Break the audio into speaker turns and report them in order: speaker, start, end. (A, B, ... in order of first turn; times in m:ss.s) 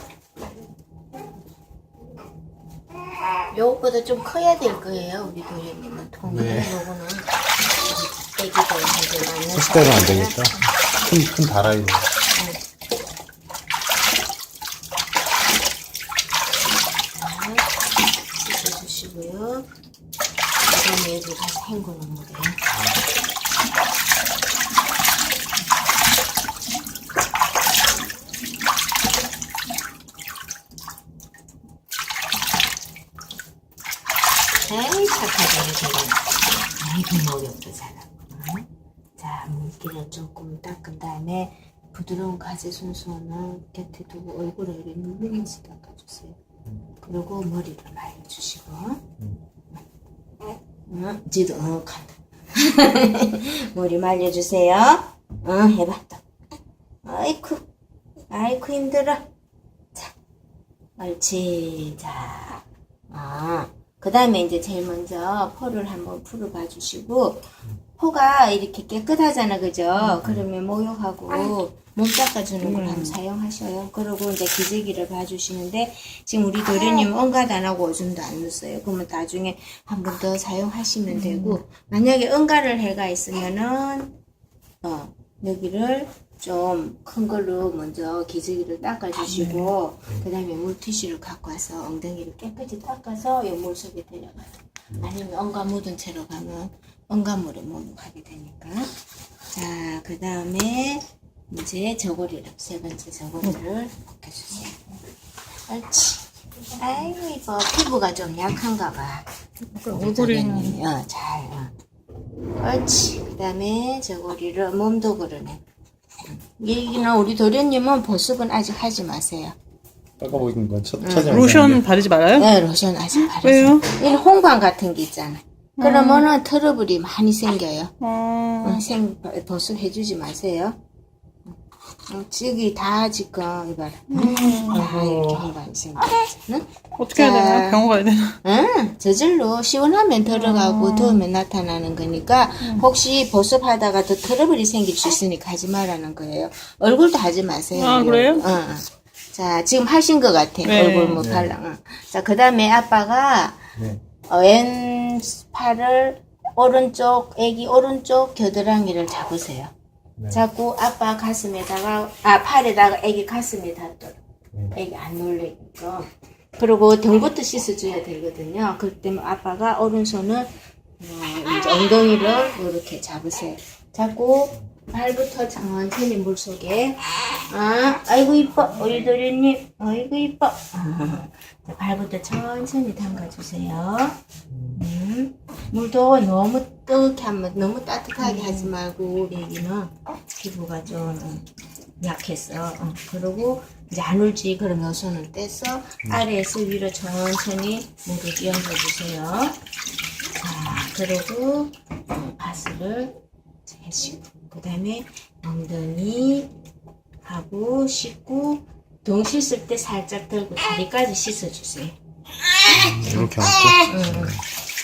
0:03.5-0:10.6 A
0:06.2-0:06.8 B
0:09.5-0:12.1 B
0:12.3-0:12.6 A
0:17.1-0:17.8 A
0:18.3-0:19.7 A
0:20.6-0:22.6 A
0:22.7-0:23.0 B
0:34.6-0:46.4 A
0:47.0-0:49.0 A
0:50.4-0:56.2 A
0:57.0-0:57.6 A
0:58.3-0:59.2 A
1:01.0-1:07.4 A
1:08.0-1:24.1 A
1:12.6-1:13.2 C
1:21.1-1:21.6 C
1:24.8-1:38.9 A
1:29.3-1:29.7 C
1:39.5-1:44.8 A
1:45.7-1:51.7 A
1:49.7-1:50.8 C
1:52.6-1:55.6 A
1:56.5-1:59.5 A
2:00.2-2:01.8 B
2:01.0-2:01.4 A
2:01.2-2:02.5 C
2:02.3-2:07.9 A
2:03.2-2:03.9 C
2:05.8-2:06.2 C
2:08.0-2:08.8 C
2:08.6-2:10.8 A
2:12.1-2:17.8 A
2:14.1-2:14.8 C
2:14.5-2:15.5 B
2:17.0-2:18.4 C
2:18.4-2:33.7 A
2:20.3-2:21.2 C
2:27.7-2:28.4 C
2:30.6-2:31.2 C
2:31.2-2:31.5 B
2:34.3-2:39.7 A
2:40.3-2:44.2 A
2:44.7-3:04.2 A
3:04.7-3:11.5 A
3:08.2-3:08.7 C
3:12.0-3:19.6 A
3:20.4-3:26.5 A
3:27.2-3:32.0 A
3:32.7-3:34.4 B
3:33.0-3:33.3 A
3:33.8-3:34.4 A